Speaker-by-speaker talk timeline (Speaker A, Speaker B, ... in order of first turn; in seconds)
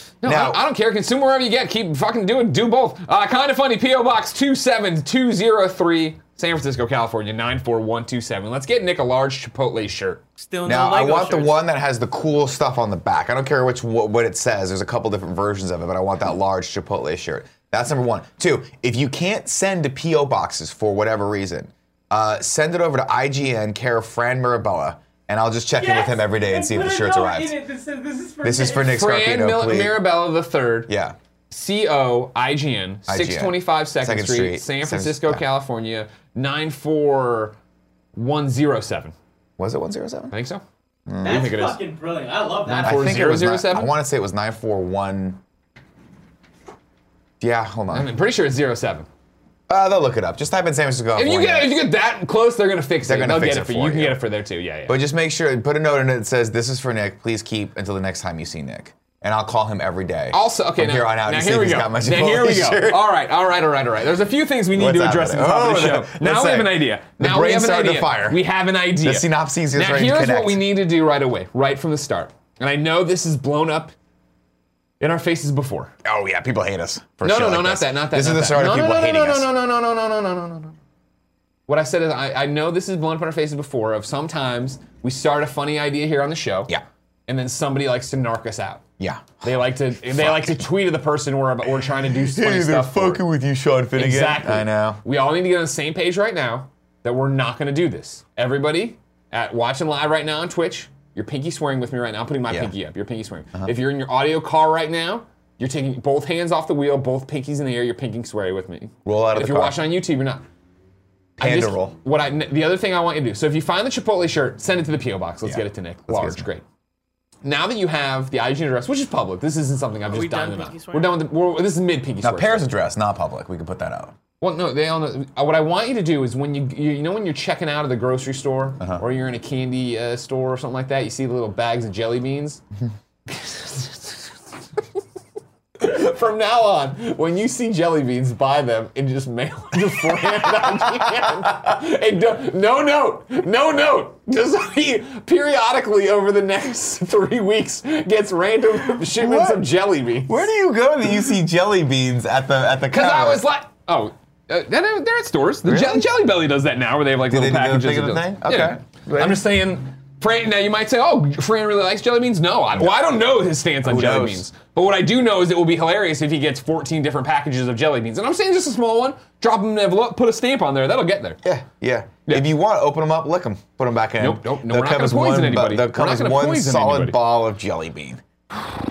Speaker A: 0.2-10.2, 28.9-30.9, 31.5-37.6, 38.1-39.1, 40.3-40.6, 41.2-41.8, 42.7-43.9, 47.9-49.1, 51.1-55.0, 60.3-73.9, 75.0-75.9, 77.2-80.8, 81.7-86.7, 87.3-88.8, 89.4-93.2, 94.0-110.4, 111.4-116.6, 117.4-122.7, 124.4-132.6, 133.3-134.3, 135.8-150.5, 152.9-171.4, 174.2-177.2
Speaker B: 0.2-0.6, 10.7-27.6, 28.4-30.1, 30.9-31.2, 33.1-35.5, 39.6-40.4, 41.1-41.7, 42.7-45.4, 47.4-48.1, 49.7-51.8, 53.0-54.2, 54.9-63.1, 64.7-68.4, 69.0-70.7, 76.0-79.5, 89.0-89.5, 90.1-90.7, 92.0-95.0, 109.0-109.8, 111.4-112.0, 115.5-116.5, 122.2-124.2, 140.4-141.4, 148.8-149.7, 150.3-153.5, 155.6-156.1, 157.3-159.4, 163.8-164.5, 171.4-178.2
Speaker C: 10.4-11.6, 25.8-28.9, 41.2-43.1, 120.1-121.2